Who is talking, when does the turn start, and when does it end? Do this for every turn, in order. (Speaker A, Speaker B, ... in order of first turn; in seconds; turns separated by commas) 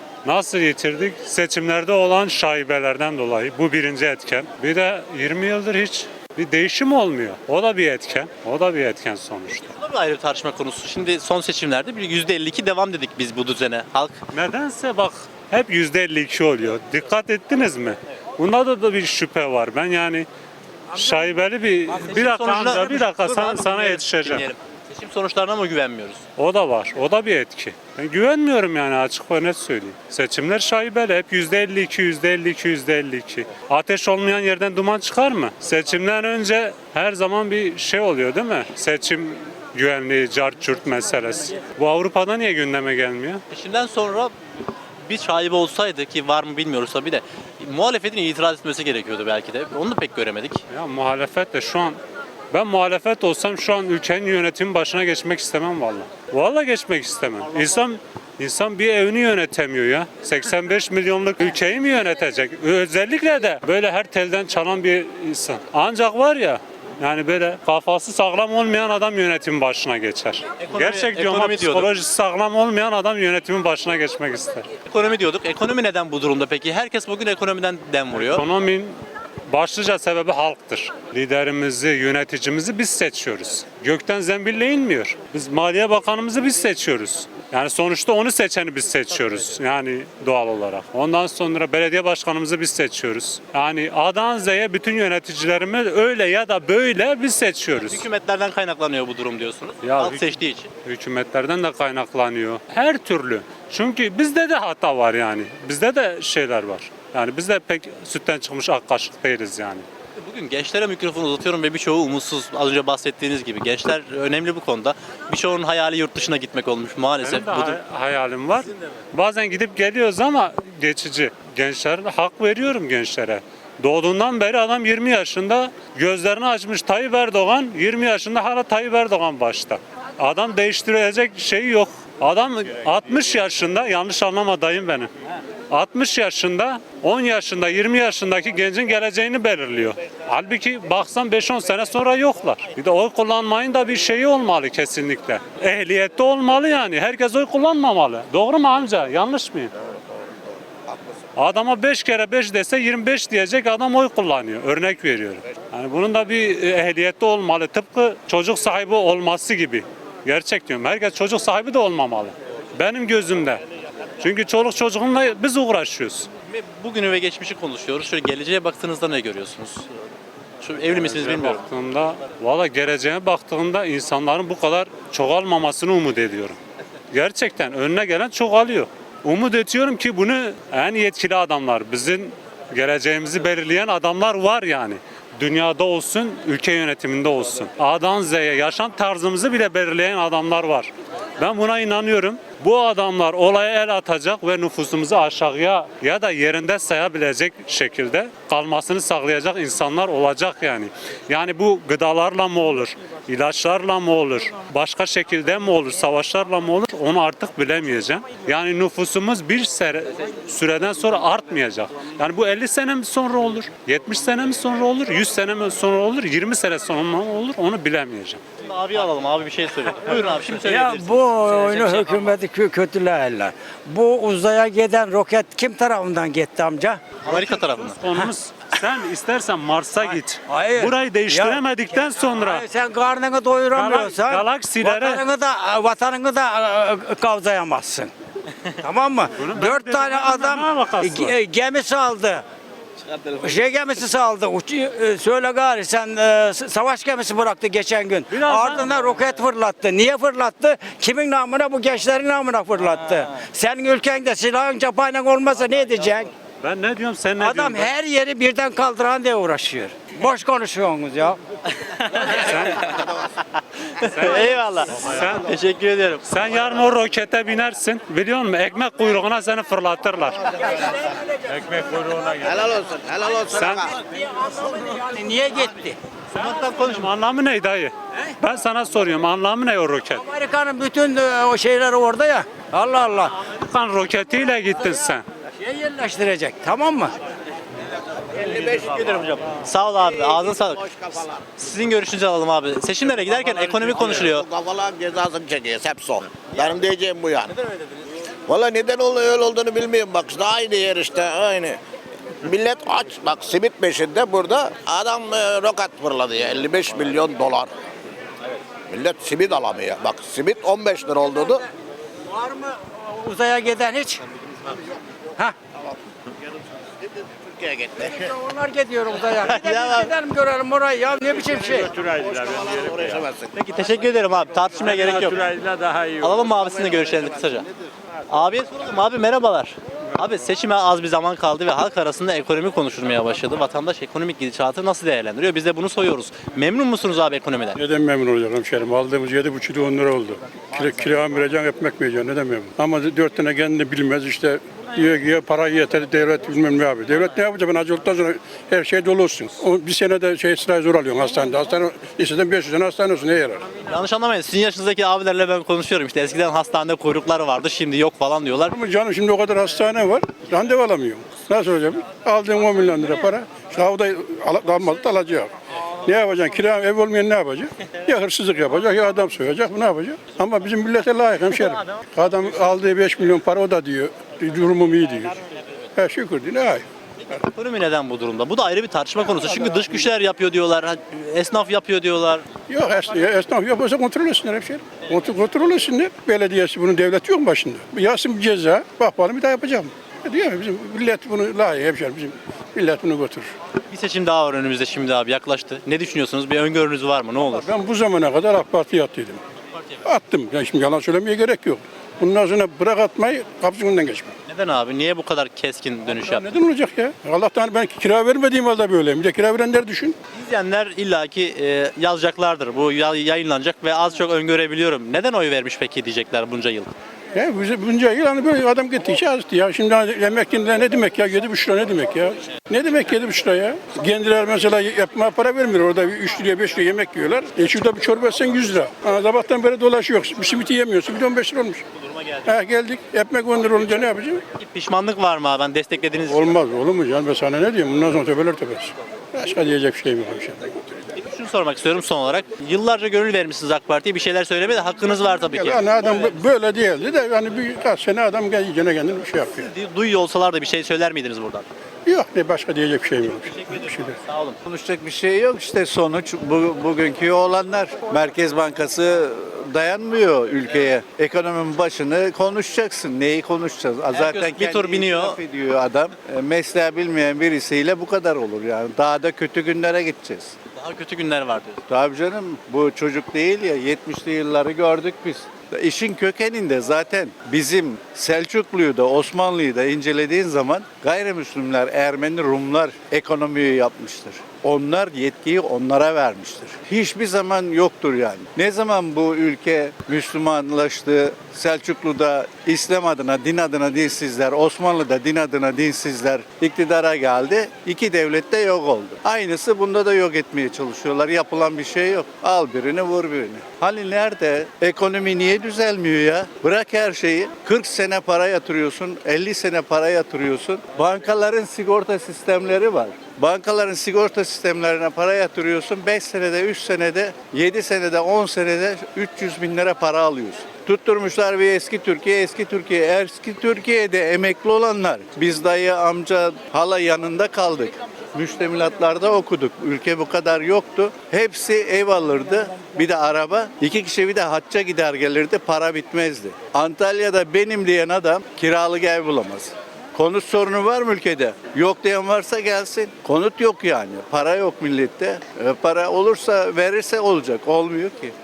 Speaker A: 0.2-9.7, Speaker B: 9.7-14.2, Speaker A: 14.3-20.3, Speaker A: 20.9-24.5, Speaker B: 21.9-26.2, Speaker A: 26.4-43.4, Speaker B: 43.5-44.3, Speaker B: 45.1-50.6, Speaker A: 50.7-52.0, Speaker A: 52.5-74.7, Speaker B: 70.6-71.9, Speaker B: 74.9-78.5, Speaker A: 78.1-79.0, Speaker A: 79.5-98.0, Speaker B: 97.8-100.7, Speaker A: 99.8-109.8, Speaker B: 110.2-117.8, Speaker A: 117.2-135.1, Speaker A: 135.7-149.7, Speaker A: 151.4-163.6, Speaker A: 164.2-166.3, Speaker B: 166.5-169.8, Speaker B: 170.6-171.6, Speaker A: 170.8-176.6, Speaker A: 177.1-218.4, Speaker B: 218.6-222.3, Speaker C: 220.6-227.0, Speaker B: 227.2-228.0, Speaker A: 227.3-232.6, Speaker C: 230.5-238.1, Speaker A: 233.7-235.2, Speaker C: 238.8-242.4, Speaker A: 239.4-241.3, Speaker C: 243.4-256.3, Speaker A: 248.3-249.1, Speaker A: 256.6-257.9, Speaker C: 257.4-261.4, Speaker B: 262.1-262.5, Speaker A: 262.2-263.0, Speaker B: 263.9-266.2, Speaker A: 264.1-265.5, Speaker A: 266.2-270.8, Speaker A: 273.4-273.9, Speaker C: 274.2-275.9, Speaker A: 276.3-280.2, Speaker B: 276.4-277.1, Speaker C: 280.2-283.3, Speaker A: 283.4-285.2, Speaker C: 285.6-287.1, Speaker B: 288.4-291.0, Speaker D: 288.5-288.7, Speaker B: 291.6-294.5, Speaker D: 294.6-297.4, Speaker B: 297.5-297.9, Speaker D: 298.5-301.8, Speaker D: 302.5-307.6, Speaker D: 308.9-311.6, Speaker C: 312.3-314.2, Speaker D: 317.6-317.8, Speaker C: 318.0-321.9, Speaker B: 319.4-320.1, Speaker B: 323.5-325.5, Speaker B: 326.2-327.6, Speaker B: 328.3-337.8, Speaker E: 337.8-353.6, Speaker B: 353.9-358.8, Speaker E: 358.7-365.5, Speaker E: 366.0-375.4, Speaker E: 375.9-377.4, Speaker B: 377.4-382.4, Speaker E: 379.4-380.1, Speaker E: 382.7-393.5, Speaker B: 393.9-397.7, Speaker E: 397.4-399.4, Speaker B: 399.7-400.1, Speaker E: 400.0-404.3, Speaker B: 404.5-406.5, Speaker E: 406.1-410.2, Speaker B: 410.3-416.9, Speaker E: 417.3-431.8, Speaker B: 432.0-432.5, Speaker E: 432.4-434.4, Speaker B: 434.6-436.5, Speaker E: 436.2-441.0, Speaker B: 441.2-446.4, Speaker E: 445.0-449.7, Speaker B: 449.5-451.7, Speaker E: 452.1-454.2, Speaker B: 453.3-454.6, Speaker F: 454.6-470.5, Speaker B: 464.1-465.4, Speaker B: 470.8-471.8, Speaker F: 471.9-548.3